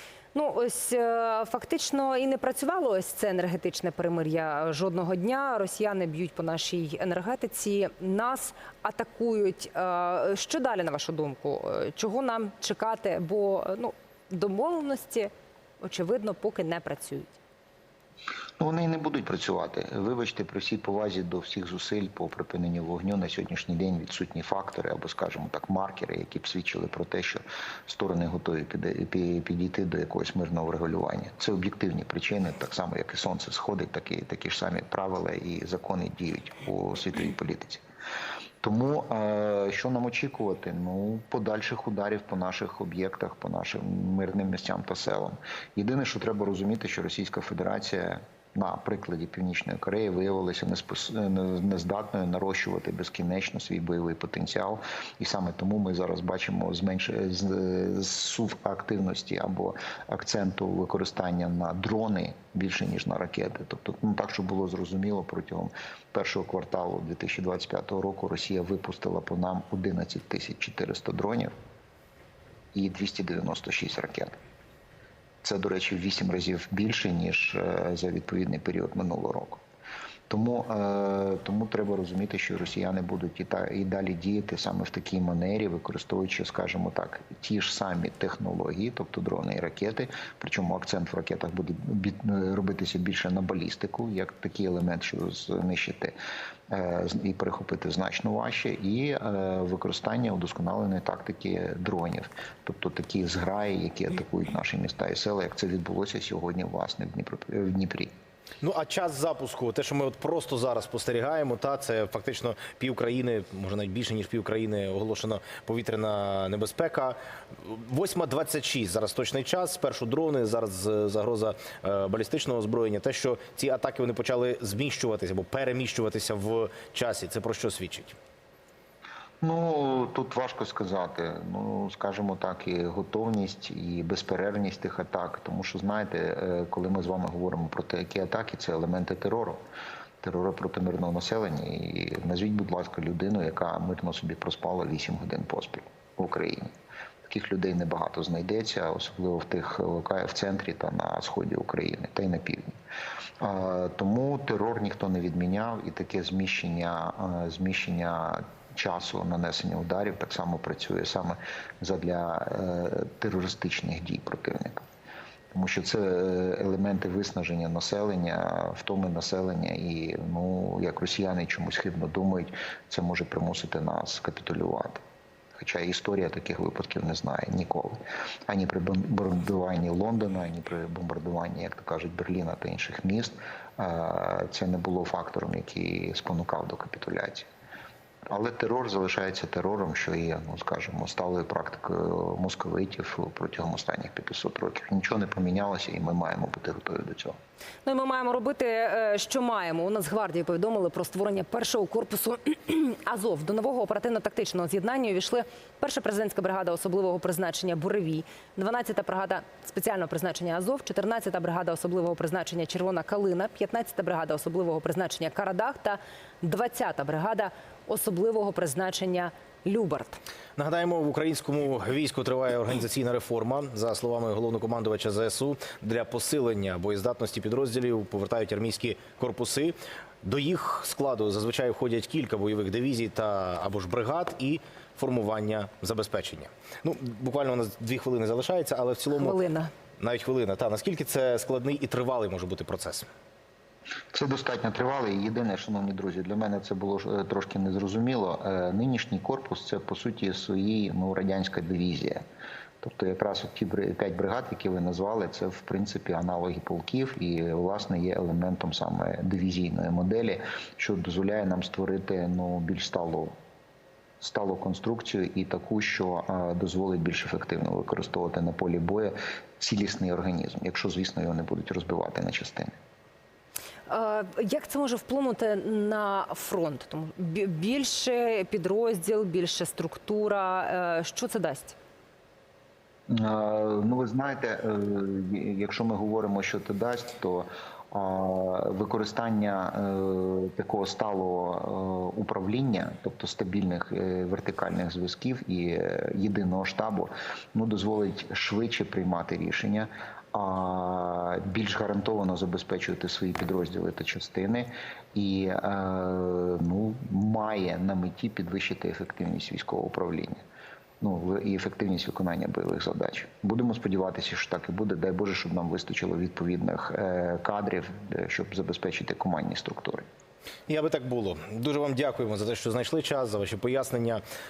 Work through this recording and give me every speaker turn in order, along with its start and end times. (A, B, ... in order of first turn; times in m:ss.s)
0:00.3-0:17.4 A
0:18.6-0:37.8 B
0:38.6-1:11.5 B
1:12.7-1:14.4 B
1:15.4-1:19.6 B
1:20.3-1:36.2 B
1:36.7-1:48.1 B
1:48.6-2:08.2 C
2:09.4-2:19.6 B
2:20.2-2:26.7 B
2:27.2-2:32.8 B
2:33.4-2:44.8 B
2:45.5-2:55.0 B
2:55.6-3:07.5 B
3:08.3-3:17.4 B
3:17.8-3:40.2 A
3:40.6-3:59.4 C
3:59.2-3:59.7 A
4:00.0-4:03.1 C
4:04.1-4:12.2 B
4:12.8-4:23.4 B
4:24.2-4:32.8 B
4:33.9-4:41.8 A
4:43.1-5:10.4 B
5:11.0-5:20.1 B
5:20.7-5:24.2 C